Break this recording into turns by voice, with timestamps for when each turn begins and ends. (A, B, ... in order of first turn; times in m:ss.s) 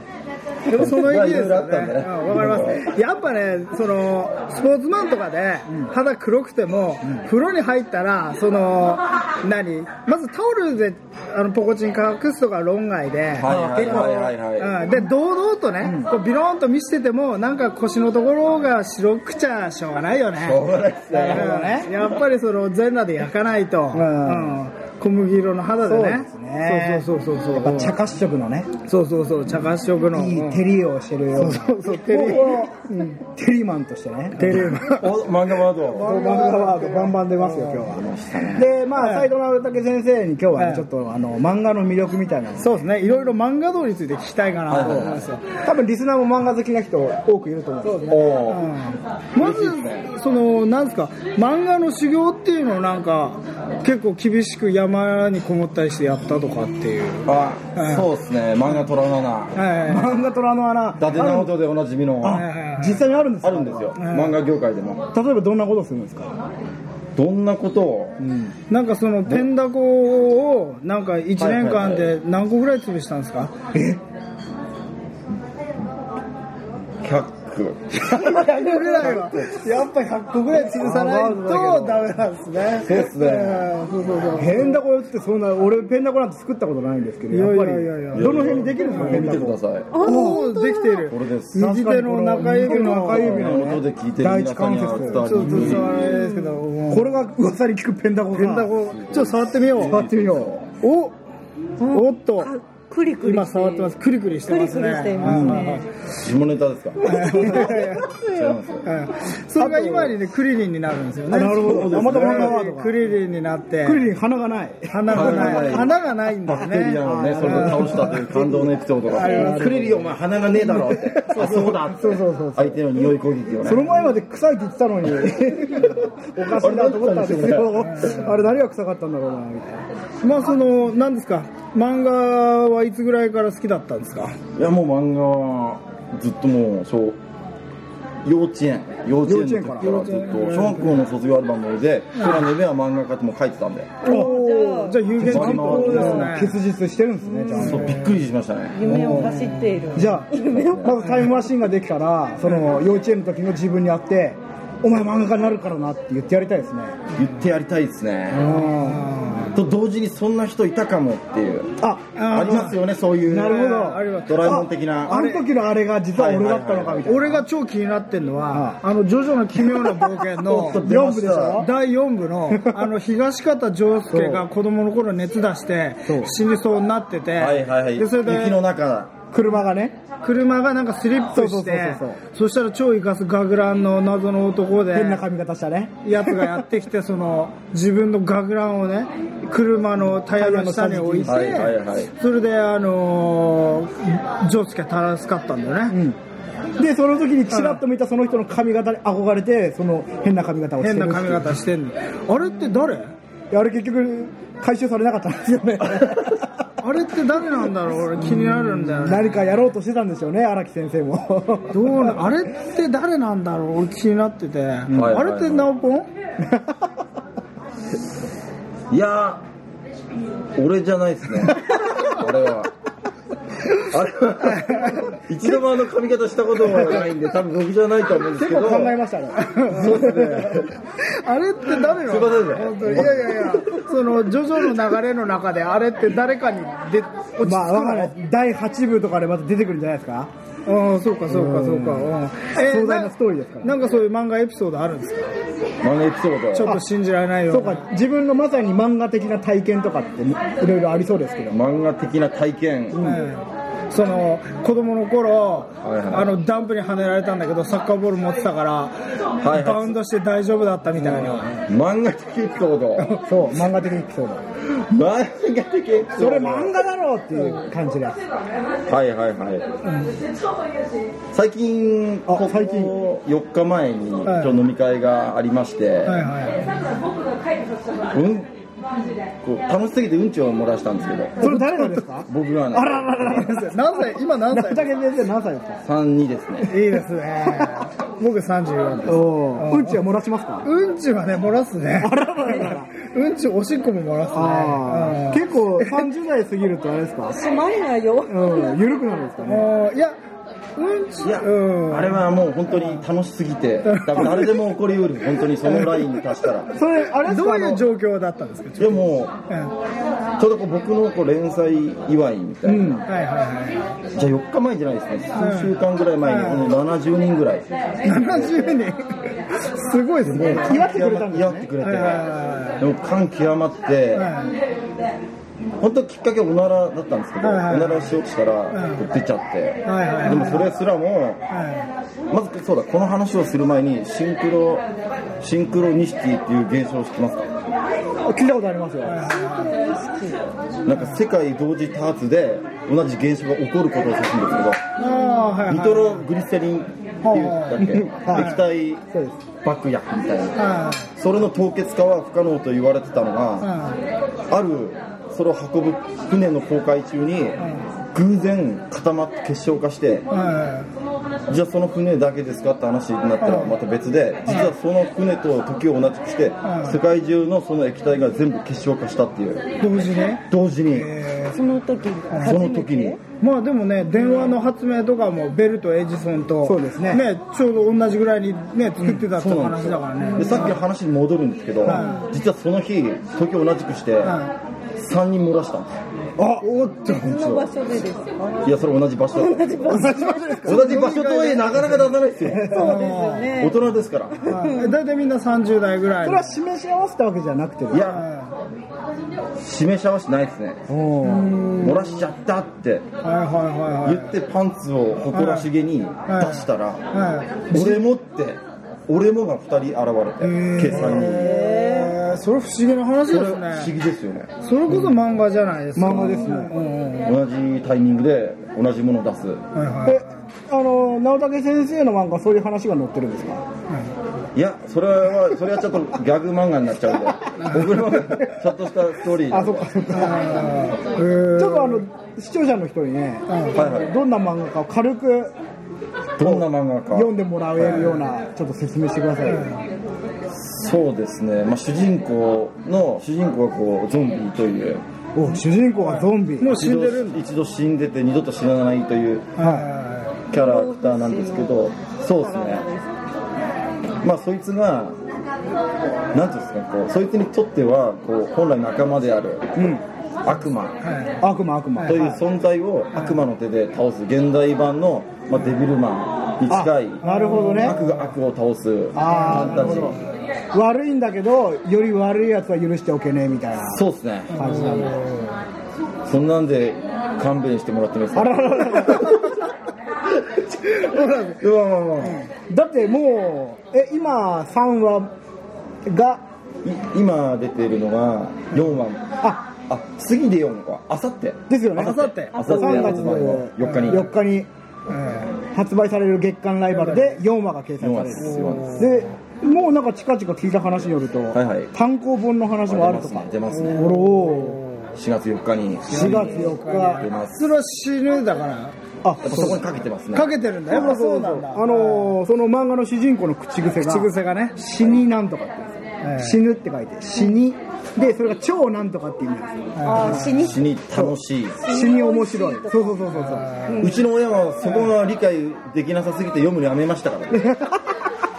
0:00.7-0:20.6 A
0:00.7-0:02.9 B
0:13.4-0:14.8 B
0:13.4-0:14.3 C
0:15.8-0:16.1 C
0:20.4-0:22.1 B
0:21.1-0:21.9 C
0:21.3-0:28.0 A
0:23.9-0:24.6 C
0:25.8-0:28.7 C
0:28.8-0:30.6 A
0:30.1-0:35.1 C
0:31.3-0:33.1 A
0:34.4-0:36.1 B
0:35.8-0:42.7 C
0:36.0-0:37.9 A
0:37.8-0:38.7 B
0:39.0-0:39.3 A
0:40.6-0:40.8 A
0:42.6-0:45.4 A
0:44.7-0:45.3 B
0:44.8-0:48.3 C
0:48.0-0:48.7 B
0:48.1-0:58.1 A
0:49.4-0:50.1 B
0:57.2-0:59.6 B
0:59.5-1:00.2 A
0:59.8-1:01.5 C
1:01.0-1:02.5 B
1:02.2-1:04.0 C
1:02.3-1:03.0 A
1:03.4-1:05.0 B
1:04.0-1:04.4 A
1:05.1-1:06.3 C
1:07.2-1:08.2 B
1:08.2-1:08.5 C
1:08.7-1:13.5 A
1:11.4-1:12.1 B
1:13.7-1:14.0 C
1:17.0-1:19.6 B
1:18.0-1:24.8 A
1:20.5-1:22.1 C
1:22.8-1:23.7 B
1:24.4-1:30.4 C
1:27.3-1:29.3 A
1:28.1-1:29.9 B
1:29.9-1:31.1 D
1:30.0-1:33.6 A
1:31.1-1:31.7 B
1:31.6-1:38.7 C
1:32.6-1:35.9 B
1:35.1-1:37.1 A
1:38.3-1:40.0 A
1:38.8-1:40.7 B
1:39.8-1:40.5 C
1:40.8-1:41.1 A
1:41.8-1:45.8 D
1:41.8-1:42.5 A
1:43.2-1:45.8 A
1:45.2-1:48.9 B
1:45.2-1:45.6 C
1:47.0-1:48.0 A
1:47.1-1:47.8 C
1:47.2-1:48.6 D
1:48.8-1:54.0 A
1:49.5-1:50.2 C
1:51.3-1:53.0 C
1:51.5-1:52.6 B
1:53.8-1:55.9 C
1:54.9-1:58.1 A
1:55.1-2:03.9 B
1:57.0-2:03.1 C
1:59.1-1:59.9 A
1:59.2-1:59.6 D
2:03.6-2:09.8 C
2:06.4-2:08.3 B
2:07.9-2:08.2 A
2:10.2-2:14.4 A
2:14.5-2:17.2 B
2:18.2-2:23.9 B
2:19.2-2:20.0 C
2:19.8-2:21.0 A
2:22.2-2:22.5 A
2:24.0-2:25.0 D
2:24.0-2:28.0 C
2:24.1-2:26.6 A
2:25.2-2:26.3 B
2:27.2-2:27.7 D
2:27.6-2:28.8 B
2:27.6-2:28.1 A
2:28.7-2:31.1 D
2:28.8-2:37.0 C
2:29.1-2:29.9 A
2:30.4-2:31.0 B
2:37.1-2:38.6 B
2:38.3-2:39.2 C
2:38.7-2:39.6 A
2:39.5-2:41.7 B
2:41.8-2:42.1 C
2:42.1-2:42.8 A
2:42.3-2:43.7 B
2:43.3-2:47.4 C
2:43.4-2:45.4 A
2:44.2-2:45.2 B
2:46.1-2:47.3 B
2:47.0-2:50.8 A
2:48.5-2:48.8 C
2:49.6-2:51.7 C
2:50.4-2:51.7 B
2:51.6-2:58.6 A
2:52.5-2:52.9 C
2:54.1-2:54.4 C
2:56.0-2:56.3 C
2:57.4-2:59.2 B
2:59.3-2:59.9 C
3:00.2-3:05.2 A
3:01.3-3:02.2 C
3:04.9-3:06.6 C
3:06.0-3:16.0 A
3:10.0-3:11.7 C
3:11.2-3:12.1 B
3:15.9-3:16.2 C
3:16.8-3:21.5 C
3:17.5-3:17.8 A
3:20.8-3:23.1 A
3:23.5-3:26.5 C
3:26.8-3:29.4 A
3:28.2-3:32.2 C
3:31.7-3:36.1 A
3:34.9-3:35.7 B
3:36.4-3:36.7 C
3:38.9-3:39.4 B
3:40.6-3:42.7 B
3:43.6-3:48.9 B
3:44.4-3:45.1 A
3:48.3-3:50.7 C
3:49.4-3:50.0 A
3:49.6-3:50.7 B
3:51.0-3:58.1 A
3:51.9-3:53.8 B
3:52.9-3:53.4 C
3:57.4-4:00.3 C
4:00.6-4:05.3 A
4:01.3-4:03.7 C
4:05.8-4:06.8 B
4:06.5-4:07.8 A
4:07.5-4:11.6 C
4:11.5-4:13.0 B
4:12.9-4:13.2 C
4:13.0-4:21.6 A
4:15.8-4:16.3 B
4:19.4-4:20.0 B
4:21.0-4:23.1 B
4:23.0-4:24.4 C
4:24.9-4:26.7 B
4:26.1-4:28.2 C
4:27.4-4:27.6 A
4:28.9-4:29.7 B
4:29.8-4:30.1 A
4:31.3-4:36.3 B
4:32.3-4:33.0 C
4:34.2-4:34.5 A
4:36.0-4:36.7 A
4:38.1-4:38.5 B
4:39.4-4:41.5 B
4:41.4-4:45.8 C
4:41.4-4:42.0 A
4:42.3-4:43.4 B
4:43.3-4:44.9 A
4:45.8-4:46.7 B
4:46.7-4:50.0 A
4:47.5-4:47.8 C
4:49.0-4:50.6 C
4:50.6-4:56.0 A
4:52.0-4:52.9 C
4:54.3-4:57.4 C
4:57.3-4:58.8 D
4:58.3-4:59.7 C
4:59.4-5:00.2 A
5:00.8-5:02.2 A
5:01.2-5:06.7 B
5:03.8-5:04.5 A
5:06.7-5:07.8 C
5:07.2-5:09.7 A
5:08.8-5:09.3 B
5:10.4-5:13.0 B
5:12.6-5:13.0 C
5:13.0-5:13.8 A
5:14.1-5:18.6 B
5:15.4-5:16.7 A
5:18.0-5:20.8 A
5:20.2-5:22.3 B
5:20.3-5:21.7 C
5:21.8-5:22.8 A
5:22.8-5:24.3 B
5:24.1-5:24.5 A
5:25.8-5:31.4 B
5:27.4-5:28.1 A
5:28.7-5:29.0 A
5:29.8-5:30.6 A
5:31.5-5:31.9 A
5:32.3-5:34.8 B
5:35.4-5:37.5 B
5:38.2-5:39.2 C
5:39.0-5:39.7 A
5:39.2-5:40.4 D
5:40.8-5:44.8 B
5:45.0-5:46.2 A
5:45.7-5:49.0 B
5:47.2-5:48.6 A
5:47.8-5:49.4 C
5:49.6-5:50.6 B
5:50.6-5:51.1 A
5:51.2-5:53.7 B
5:53.6-5:54.0 A
5:54.5-6:00.3 B
6:00.3-6:00.9 A
6:01.5-6:09.7 B
6:03.4-6:03.8 A
6:04.4-6:04.7 A
6:06.6-6:07.0 A
6:09.8-6:11.6 A
6:10.5-6:11.1 B
6:11.5-6:13.2 D
6:12.3-6:12.6 A
6:12.4-6:13.2 B
6:13.4-6:20.8 A
6:16.6-6:17.3 C
6:19.2-6:24.4 B
6:20.2-6:20.7 D
6:21.8-6:22.3 A
6:24.2-6:24.5 A
6:25.0-6:25.9 B
6:26.4-6:26.8 C
6:26.8-6:27.7 B
6:27.0-6:28.8 D
6:28.6-6:32.9 B
6:29.3-6:30.7 D
6:29.9-6:31.1 C
6:30.6-6:32.1 A
6:32.4-6:32.9 C
6:32.5-6:34.9 D
6:32.7-6:33.5 A
6:33.5-6:34.7 B
6:34.5-6:36.5 A
6:36.2-6:38.2 C
6:37.9-6:38.3 B
6:38.0-6:38.5 A
6:39.6-6:40.8 B
6:40.9-6:41.6 C
6:41.2-6:42.1 A
6:41.8-6:43.0 B
6:43.2-6:44.4 A
6:44.0-6:47.0 B
6:45.3-6:45.7 A
6:46.2-6:47.8 A
6:47.7-6:51.5 B
6:50.4-6:53.9 A
6:50.7-6:51.3 C
6:51.2-6:52.2 D
6:53.3-6:54.5 B
6:54.6-6:57.3 A
6:55.9-6:56.7 C
6:57.2-6:59.6 B
6:59.7-7:00.2 A
7:00.0-7:03.6 C
7:04.5-7:10.0 B
7:07.6-7:07.9 A
7:09.5-7:10.6 C
7:10.2-7:12.0 A
7:11.5-7:15.5 C
7:13.5-7:13.8 A
7:13.7-7:14.1 B
7:16.4-7:18.2 B
7:16.4-7:19.7 C
7:17.8-7:18.2 A
7:19.4-7:19.8 A
7:20.5-7:25.0 B
7:25.3-7:26.8 C
7:26.0-7:27.4 A
7:26.7-7:29.5 B
7:29.6-7:30.4 A
7:29.6-7:29.9 C
7:30.5-7:32.9 B
7:30.5-7:33.1 D
7:34.2-7:35.2 B
7:36.3-7:39.8 B
7:39.8-7:40.0 C
7:40.4-7:41.0 B
7:41.0-7:41.4 A
7:41.4-7:42.4 C
7:42.0-7:50.2 B
7:46.7-7:48.0 C
7:47.2-7:48.0 A
7:49.1-7:50.2 C
7:49.2-7:50.1 A
7:50.7-7:55.2 C
7:53.8-7:54.8 B
7:54.5-7:55.5 A
7:56.2-7:59.4 B
7:58.3-7:59.6 C
8:01.0-8:01.6 A
8:01.5-8:02.4 B
8:02.7-8:05.3 C
8:06.0-8:06.4 C
8:06.8-8:14.3 B
8:11.7-8:14.7 C
8:12.0-8:14.1 A
8:15.1-8:15.5 A
8:15.7-8:24.8 C
8:18.0-8:19.2 B
8:18.4-8:19.1 A
8:21.5-8:21.9 B
8:22.8-8:24.2 B
8:23.7-8:25.1 A
8:25.2-8:27.7 B
8:26.1-8:27.3 C
8:26.1-8:28.9 A
8:29.2-8:29.8 C
8:29.4-8:31.2 B
8:30.3-8:32.4 A
8:30.9-8:40.5 C
8:34.0-8:34.8 A
8:36.2-8:36.6 A
8:40.0-8:40.5 A
8:40.0-8:40.9 D
8:40.4-8:41.8 B
8:41.1-8:43.8 C
8:41.8-8:44.2 D
8:43.3-8:44.1 A
8:44.0-8:47.7 B
8:47.5-8:48.1 C